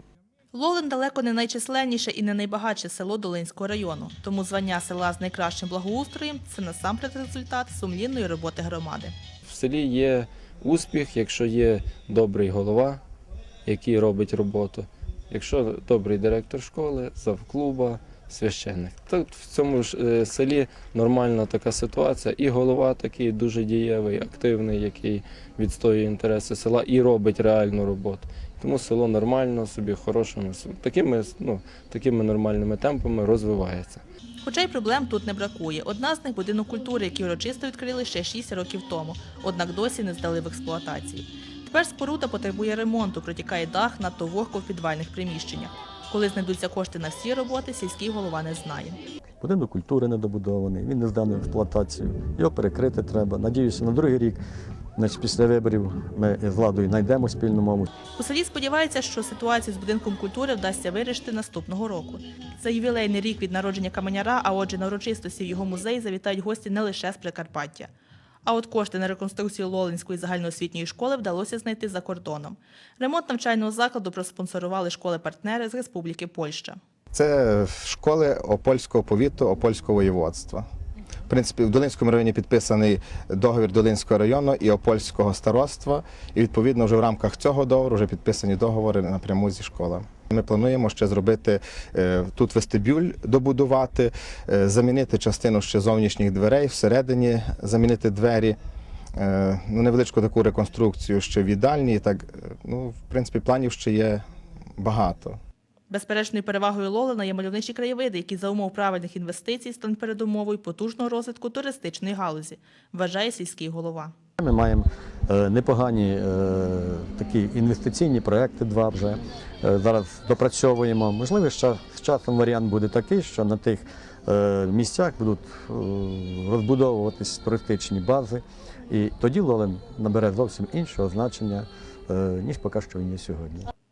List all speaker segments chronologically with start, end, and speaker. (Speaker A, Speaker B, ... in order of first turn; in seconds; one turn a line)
Speaker A: 0.5-9.1
Speaker B: 9.4-13.0
Speaker B: 13.7-34.0
Speaker A: 34.4-49.0
Speaker C: 49.4-54.4
Speaker C: 55.0-57.9
Speaker A: 58.2-67.9
Speaker A: 68.5-76.8
Speaker D: 77.1-80.7
Speaker D: 81.3-98.6
Speaker D: 99.2-104.2
Speaker D: 104.8-105.4
Speaker A: 105.9-114.1
Speaker C: 114.4-133.7